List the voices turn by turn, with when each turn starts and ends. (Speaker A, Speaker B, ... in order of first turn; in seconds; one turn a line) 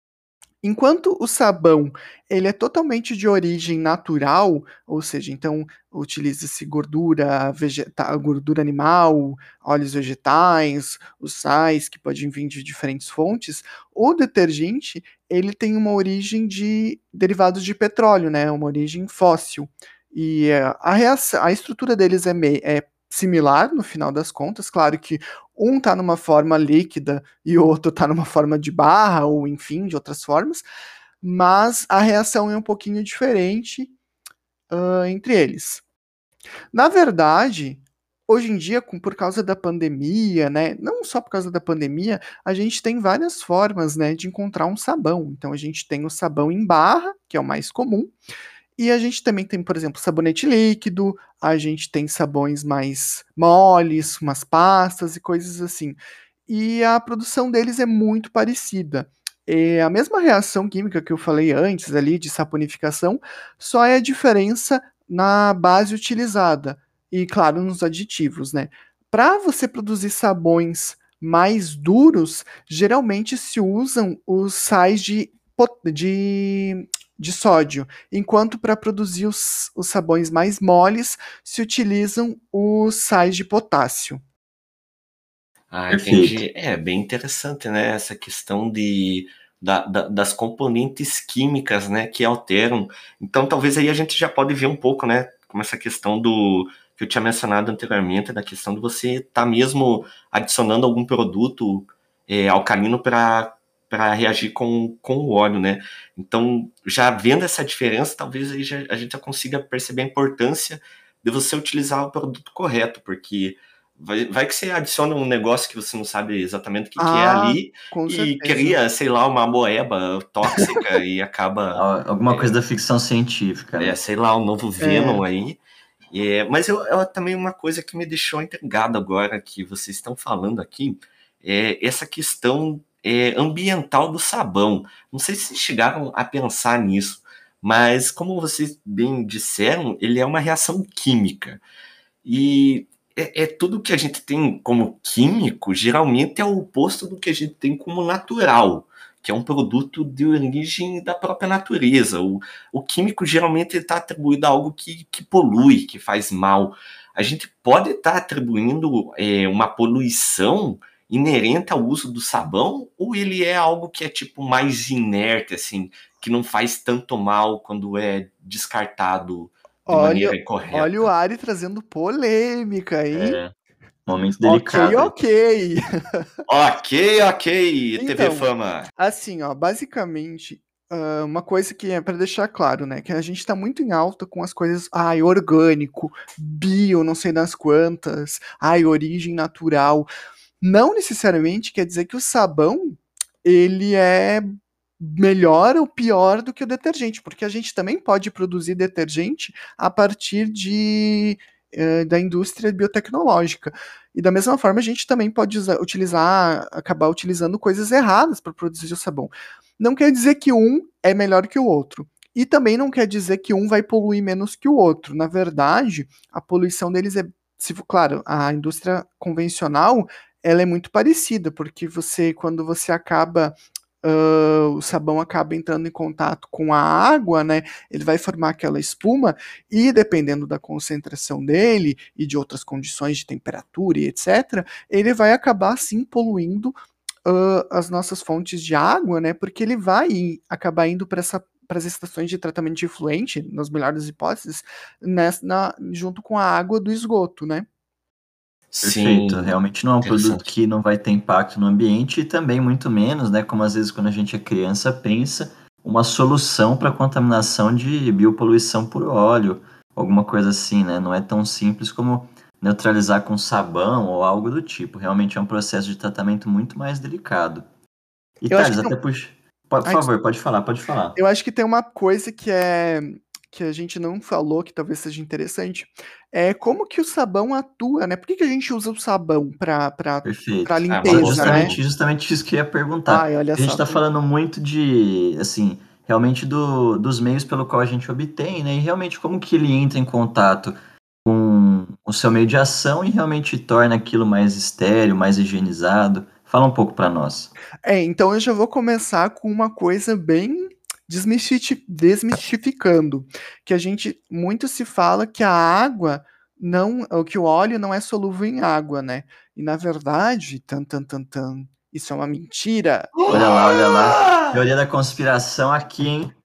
Speaker A: 0.6-30.6
Speaker A: 31.2-33.9
Speaker A: 34.7-35.8
Speaker A: 36.7-48.1
Speaker A: 48.8-84.2
Speaker B: 85.7-122.5
Speaker C: 85.9-86.4
Speaker A: 117.0-118.8
Speaker C: 121.7-124.0
Speaker B: 123.8-125.6
Speaker A: 124.8-125.2
Speaker B: 126.1-141.6
Speaker B: 142.2-171.1
Speaker A: 169.9-173.4
Speaker C: 173.1-173.5
Speaker C: 174.1-175.1
Speaker A: 174.4-176.2
Speaker B: 176.5-178.9
Speaker A: 178.0-190.1
Speaker A: 190.6-194.5
Speaker A: 195.0-247.7
Speaker B: 248.7-250.4
Speaker C: 248.8-267.6
Speaker C: 268.4-271.2
Speaker A: 268.5-268.9
Speaker A: 271.1-281.7
Speaker C: 280.2-297.5
Speaker B: 280.9-281.8
Speaker A: 283.1-284.0
Speaker A: 297.8-313.4
Speaker B: 313.2-314.6
Speaker C: 313.3-316.3